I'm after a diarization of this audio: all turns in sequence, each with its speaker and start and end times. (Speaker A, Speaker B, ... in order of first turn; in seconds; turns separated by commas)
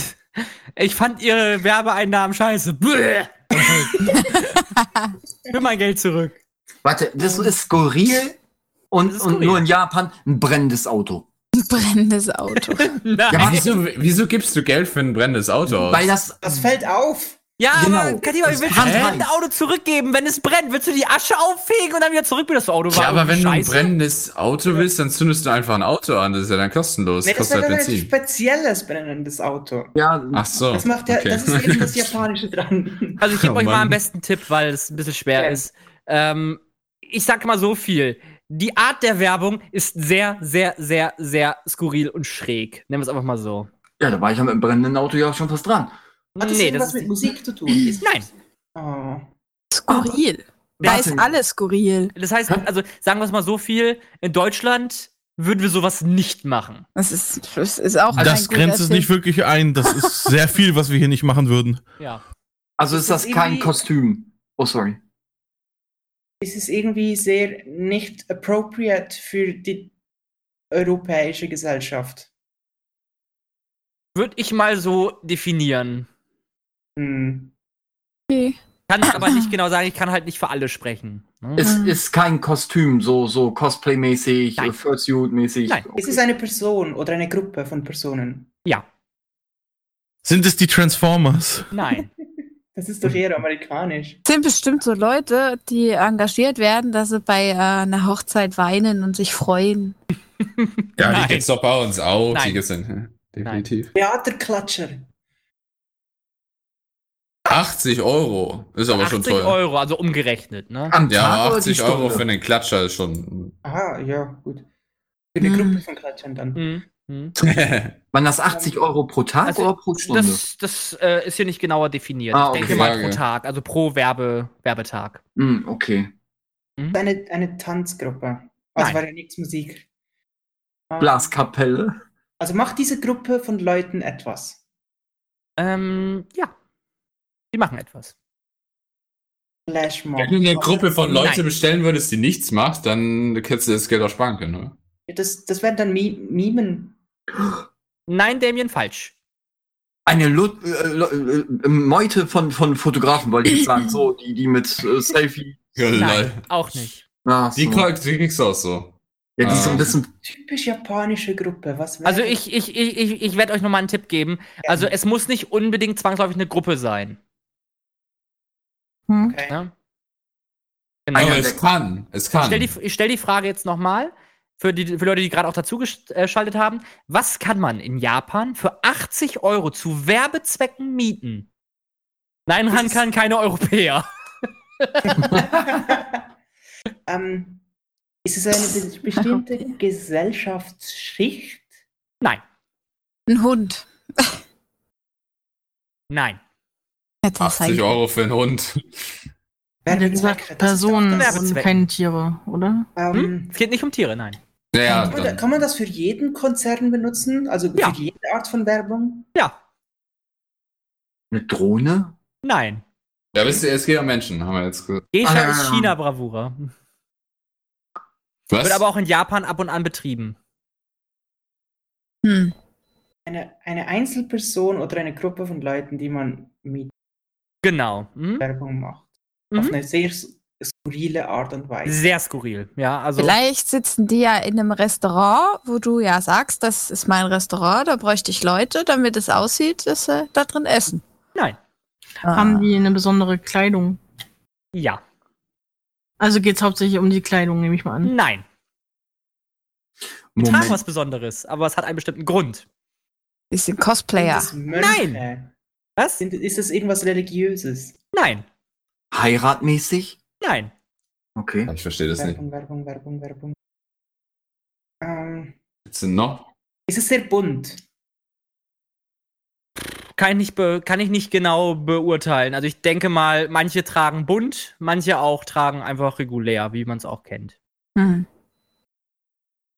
Speaker A: 0.4-4.6, Speaker B: 3.6-4.2, Speaker A: 5.5-6.4, Speaker C: 6.8-8.4, Speaker B: 7.2-7.5, Speaker C: 8.9-11.3, Speaker A: 9.1-9.7, Speaker D: 11.6-13.0, Speaker A: 12.8-13.6, Speaker C: 13.3-13.8, Speaker E: 13.3-16.1, Speaker C: 15.7-16.6, Speaker B: 16.4-17.4, Speaker A: 17.6-23.9, Speaker C: 17.7-19.3, Speaker E: 18.7-19.2, Speaker E: 22.9-28.1, Speaker B: 27.2-29.9, Speaker C: 29.9-30.7, Speaker E: 30.3-32.1, Speaker B: 30.7-33.2, Speaker A: 33.2-43.7, Speaker E: 33.4-34.0, Speaker B: 35.4-35.7, Speaker C: 44.0-45.9, Speaker A: 46.4-47.1, Speaker B: 46.4-48.0, Speaker A: 48.0-48.3, Speaker B: 48.7-49.3, Speaker D: 49.7-52.1, Speaker C: 49.9-50.1, Speaker C: 50.8-51.3, Speaker A: 50.8-51.1, Speaker A: 52.2-56.9, Speaker D: 57.0-59.1, Speaker F: 58.1-61.8, Speaker C: 62.8-65.0, Speaker B: 62.9-63.8, Speaker B: 66.4-69.9, Speaker B: 70.7-72.3, Speaker A: 74.1-76.1, Speaker B: 77.0-77.5, Speaker D: 78.3-79.5, Speaker A: 78.9-81.8, Speaker C: 81.6-86.2, Speaker D: 81.6-81.9, Speaker B: 86.0-88.5, Speaker F: 90.2-91.7, Speaker A: 91.7-92.1, Speaker B: 92.7-94.2, Speaker D: 94.3-100.0, Speaker A: 100.4-101.5, Speaker E: 101.0-103.9, Speaker A: 102.3-102.6, Speaker A: 103.4-103.7, Speaker B: 104.0-105.1, Speaker E: 107.5-109.6, Speaker A: 108.9-110.9, Speaker C: 110.9-112.3, Speaker E: 111.0-113.5, Speaker B: 113.6-114.7, Speaker B: 115.3-116.7, Speaker D: 115.4-115.8, Speaker A: 116.6-117.4, Speaker E: 117.4-118.0, Speaker C: 118.1-120.4, Speaker B: 118.5-118.9, Speaker A: 119.5-125.2, Speaker C: 122.3-122.9, Speaker E: 122.6-123.2, Speaker C: 125.4-126.1, Speaker B: 126.9-129.9, Speaker B: 130.9-131.4, Speaker C: 131.0-132.0, Speaker B: 132.4-134.6, Speaker A: 135.6-136.5, Speaker A: 137.5-138.1, Speaker B: 139.7-141.0, Speaker E: 140.2-144.8, Speaker A: 141.1-141.4, Speaker B: 145.1-147.0, Speaker A: 148.1-149.1, Speaker C: 150.1-155.7, Speaker E: 155.8-156.4, Speaker A: 155.9-157.0, Speaker C: 157.2-157.9, Speaker E: 157.6-159.9, Speaker C: 159.4-160.1, Speaker B: 160.1-162.4, Speaker A: 162.1-167.2, Speaker B: 164.6-164.9, Speaker G: 169.1-169.4, Speaker B: 169.2-169.6, Speaker A: 171.1-171.5, Speaker C: 171.1-171.6, Speaker E: 171.2-172.7, Speaker A: 172.4-181.5, Speaker A: 182.5-184.1, Speaker B: 182.7-183.0, Speaker A: 184.8-185.1, Speaker B: 185.1-186.2, Speaker B: 187.1-187.6, Speaker B: 188.2-191.7, Speaker D: 189.2-189.6, Speaker D: 193.3-194.4, Speaker A: 196.1-196.4, Speaker D: 197.2-197.9, Speaker E: 197.4-199.0, Speaker B: 199.9-201.6, Speaker G: 199.9-202.9, Speaker A: 201.1-201.7, Speaker B: 202.9-203.6, Speaker A: 203.1-204.4, Speaker E: 204.7-205.4, Speaker B: 204.9-209.3, Speaker C: 211.3-212.1, Speaker A: 212.4-212.8, Speaker E: 213.3-215.1, Speaker A: 215.1-216.7, Speaker C: 215.2-215.9, Speaker E: 218.5-218.8, Speaker A: 218.6-220.4, Speaker D: 222.2-222.5, Speaker B: 223.3-226.9, Speaker A: 227.6-228.4, Speaker B: 228.4-232.2, Speaker A: 229.5-229.8, Speaker A: 231.9-233.3, Speaker D: 233.2-241.0, Speaker D: 242.2-242.7, Speaker G: 242.3-244.0, Speaker A: 244.7-245.0, Speaker G: 246.2-248.1, Speaker A: 248.0-248.4, Speaker C: 250.3-250.8, Speaker A: 250.4-252.6, Speaker D: 253.5-254.5, Speaker B: 254.2-255.5, Speaker A: 254.7-255.2, Speaker A: 256.0-256.2, Speaker B: 256.2-258.0, Speaker A: 258.1-258.4, Speaker C: 259.1-260.2, Speaker A: 260.4-260.7, Speaker C: 261.4-261.7, Speaker E: 261.7-262.4, Speaker B: 262.1-263.6, Speaker B: 265.0-265.6, Speaker E: 265.9-266.5, Speaker B: 266.9-267.8, Speaker A: 270.2-277.6, Speaker D: 277.9-278.3